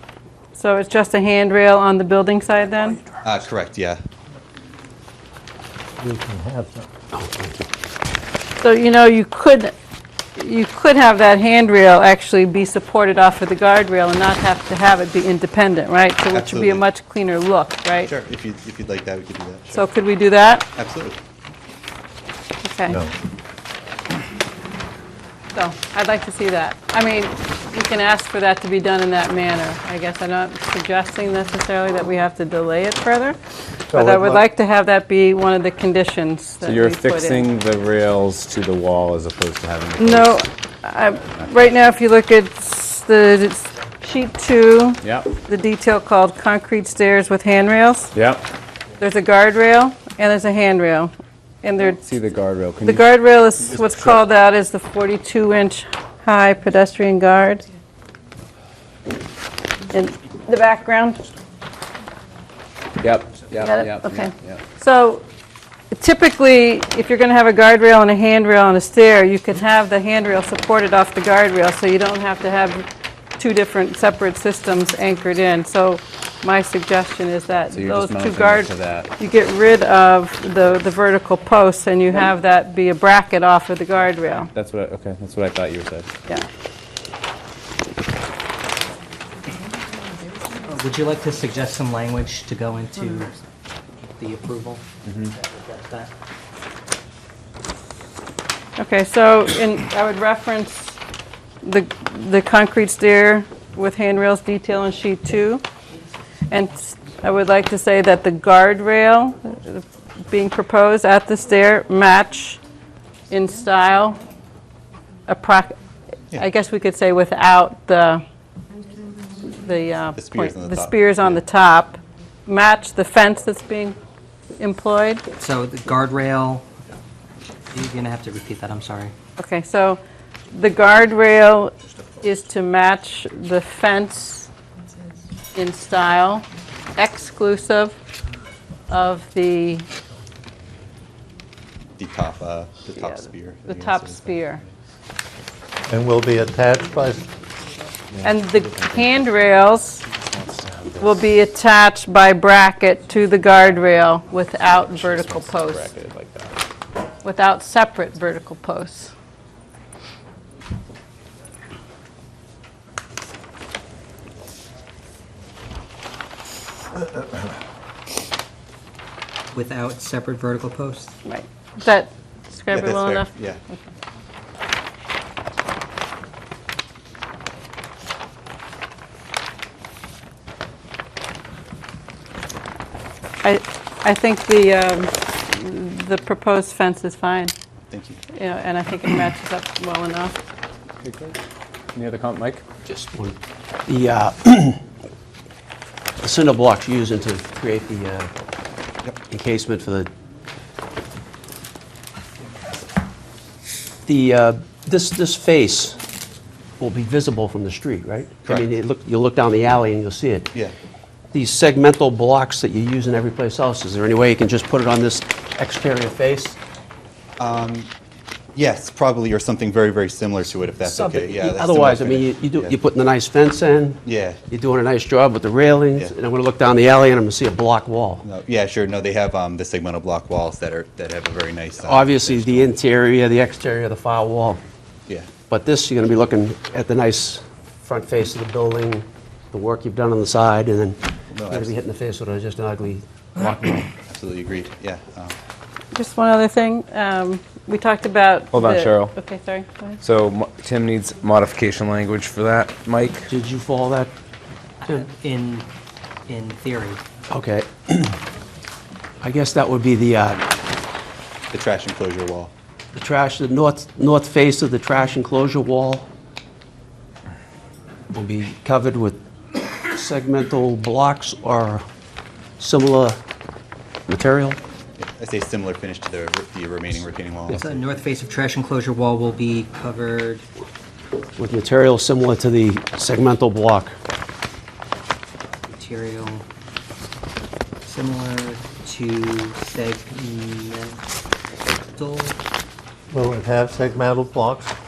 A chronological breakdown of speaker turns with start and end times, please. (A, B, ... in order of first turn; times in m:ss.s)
0:00.6-0:03.0 A
0:03.2-0:04.0 B
0:06.0-0:06.9 C
0:07.1-0:07.6 D
0:08.6-0:09.7 A
0:10.4-0:18.1 A
0:16.3-0:16.8 B
0:18.0-0:19.8 B
0:19.7-0:20.7 A
0:20.7-0:21.2 B
0:22.6-0:23.0 A
0:25.5-0:33.4 A
0:33.9-0:34.5 C
0:33.9-0:37.5 A
0:36.6-0:40.4 E
0:40.0-0:48.1 A
0:45.0-0:45.3 E
0:48.1-0:48.4 E
0:49.0-0:51.1 A
0:51.6-0:52.0 A
0:51.9-0:53.1 E
0:52.8-0:57.6 A
0:59.9-1:01.2 A
1:03.0-1:04.6 E
1:03.6-1:05.2 A
1:05.9-1:12.9 A
1:13.4-1:24.5 A
1:17.7-1:19.1 E
1:24.3-1:26.1 E
1:30.6-1:33.4 F
1:34.1-1:36.1 F
1:35.0-1:35.3 E
1:38.8-1:41.0 A
1:41.6-1:45.6 A
1:46.5-1:52.6 A
1:53.3-1:54.2 A
1:55.3-1:55.8 A
1:56.4-1:58.2 A
1:59.5-2:04.0 A
2:00.2-2:01.4 B
2:04.6-2:05.2 A
2:05.4-2:06.7 F
2:07.7-2:09.1 F
2:09.4-2:10.0 A
2:10.5-2:14.5 A
2:15.5-2:18.0 A
2:18.9-2:19.9 A
2:22.0-2:24.4 B
2:23.0-2:24.6 A
2:25.9-2:27.3 C
2:28.2-2:29.2 E
2:28.2-2:30.0 A
2:30.1-2:31.2 E
2:31.0-2:35.9 A
2:34.7-2:36.6 E
2:37.2-2:39.1 A
2:49.5-2:51.2 F
2:51.2-2:53.9 A
2:52.7-2:53.6 B
3:03.4-3:07.5 A
3:07.9-3:08.2 B
3:08.3-3:10.4 A
3:11.0-3:11.4 E
3:11.9-3:12.6 E
3:12.9-3:13.4 D
3:13.9-3:14.8 D
3:16.2-3:18.3 D
3:19.3-3:20.1 D
3:24.1-3:26.0 D
3:26.8-3:30.5 D
3:31.3-3:36.6 D
3:37.4-3:37.9 B
3:38.6-3:42.8 B
3:40.8-3:48.2 D
3:44.0-3:44.4 B
3:48.2-3:52.8 B
3:51.8-3:54.6 D
3:55.5-4:01.0 D
4:01.3-4:01.8 B
4:01.5-4:03.9 D
4:04.1-4:05.4 B
4:05.9-4:10.0 A
4:08.5-4:09.2 E
4:10.0-4:13.3 E
4:13.3-4:14.1 D
4:14.8-4:15.7 F
4:16.3-4:17.0 F
4:17.3-4:18.2 D
4:19.2-4:20.4 D
4:21.5-4:22.5 B
4:22.9-4:26.1 D
4:28.1-4:29.2 D
4:29.7-4:31.8 D
4:32.6-4:33.2 D
4:34.1-4:34.6 D
4:35.0-4:37.7 B
4:37.5-4:37.8 D
4:37.5-4:40.4 F
4:41.4-4:44.0 D
4:45.7-4:46.4 F
4:47.9-4:51.0 F
4:51.9-4:52.4 F
4:53.1-4:54.7 C